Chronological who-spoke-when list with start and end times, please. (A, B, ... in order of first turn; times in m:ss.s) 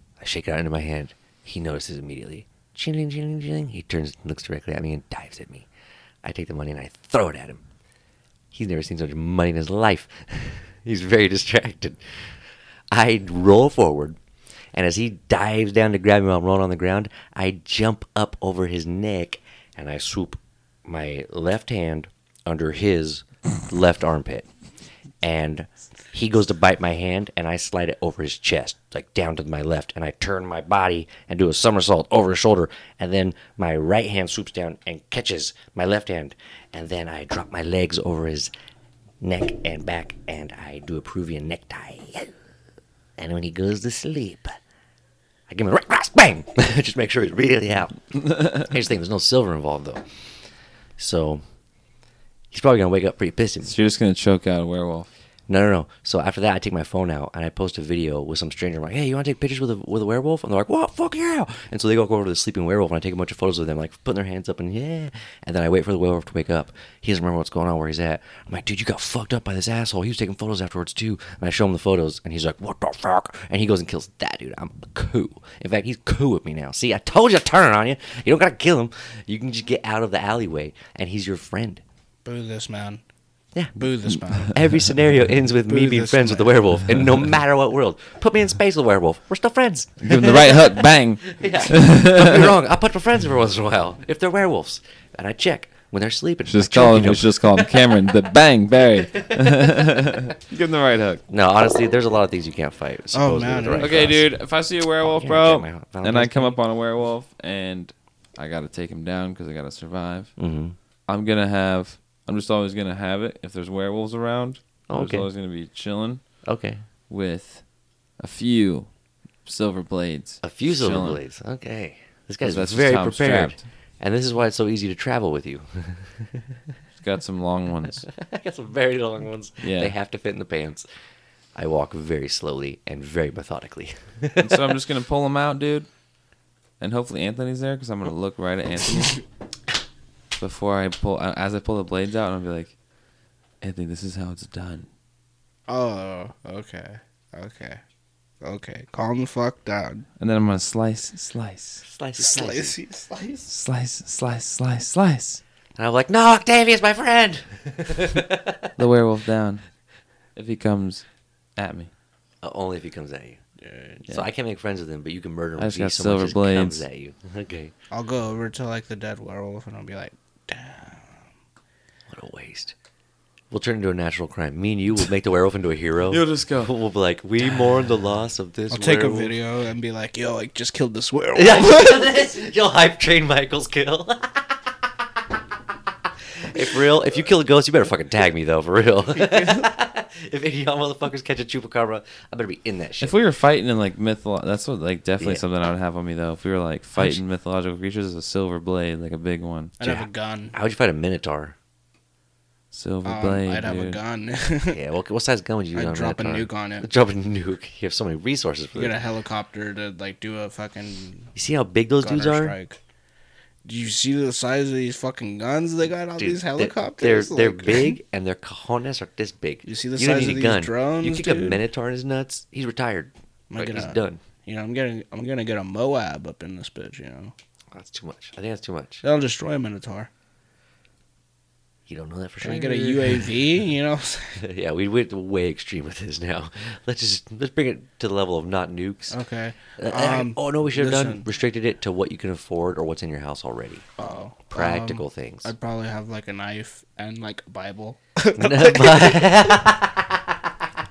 0:00.2-0:05.7 A
0:06.2-0:07.6 A
0:08.5-0:12.4 A
0:12.9-0:14.2 A
0:14.7-0:24.5 A
0:25.2-0:38.5 A
0:39.2-0:42.3 A
0:43.2-0:44.6 A
0:45.5-0:50.0 A
0:48.3-0:48.6 B
0:51.0-0:51.4 A
0:52.5-0:53.7 A
0:53.6-0:55.1 B
0:55.5-1:21.8 A
1:22.2-1:23.0 C
1:23.8-1:24.6 C
1:24.4-1:38.0 A
1:25.6-1:26.7 C
1:30.0-1:32.5 B
1:36.5-1:41.2 B
1:38.9-1:40.1 A
1:41.3-1:44.3 A
1:43.1-1:44.1 C
1:43.8-1:50.3 B
1:45.0-1:46.6 A
1:50.4-1:50.8 A
1:51.1-1:56.3 B
1:54.9-1:55.3 A
1:56.4-1:56.8 A
1:57.1-1:57.6 B
1:58.2-1:58.9 B
1:59.4-2:01.2 B
2:00.4-2:06.6 A
2:02.4-2:03.6 B
2:07.0-2:08.0 B
2:08.0-2:10.8 A
2:09.6-2:09.9 B
2:11.5-2:14.8 A
2:14.4-2:15.9 B
2:16.8-2:19.2 B
2:20.4-2:22.7 B
2:23.6-2:24.9 B
2:25.7-2:27.8 C
2:28.4-2:30.1 C
2:30.2-2:31.8 B
2:31.8-2:32.8 A
2:32.2-2:33.5 C
2:33.5-2:35.4 B
2:35.8-2:38.7 A
2:38.8-2:39.6 B
2:40.4-2:41.0 B
2:41.6-2:41.9 B
2:42.4-2:43.4 A
2:43.6-2:44.0 C
2:44.1-2:47.7 A
2:45.6-2:46.8 B
2:47.9-2:51.2 C
2:52.1-2:52.7 A
2:53.5-2:59.4 A
2:56.1-2:56.7 B
2:58.7-3:02.2 C
3:01.3-3:04.6 A
3:06.4-3:13.2 A
3:13.0-3:19.7 B
3:19.8-3:20.5 C
3:19.8-3:21.6 A
3:22.7-3:24.0 B
3:23.0-3:24.8 C
3:24.7-3:29.0 A
3:25.7-3:26.9 C
3:28.7-3:31.3 C
3:31.3-3:32.6 A
3:32.0-3:32.8 C
3:33.6-3:37.9 C
3:36.2-3:44.2 A
3:39.6-3:41.6 C
3:43.5-3:47.3 C
3:47.7-3:49.0 A
3:49.0-3:50.1 C
3:51.9-3:53.4 A
3:52.4-3:54.4 C
3:54.4-3:59.2 A
3:59.1-4:01.2 C
3:59.8-4:03.9 A
4:04.0-4:09.6 C
4:04.5-4:05.5 A
4:08.4-4:10.6 A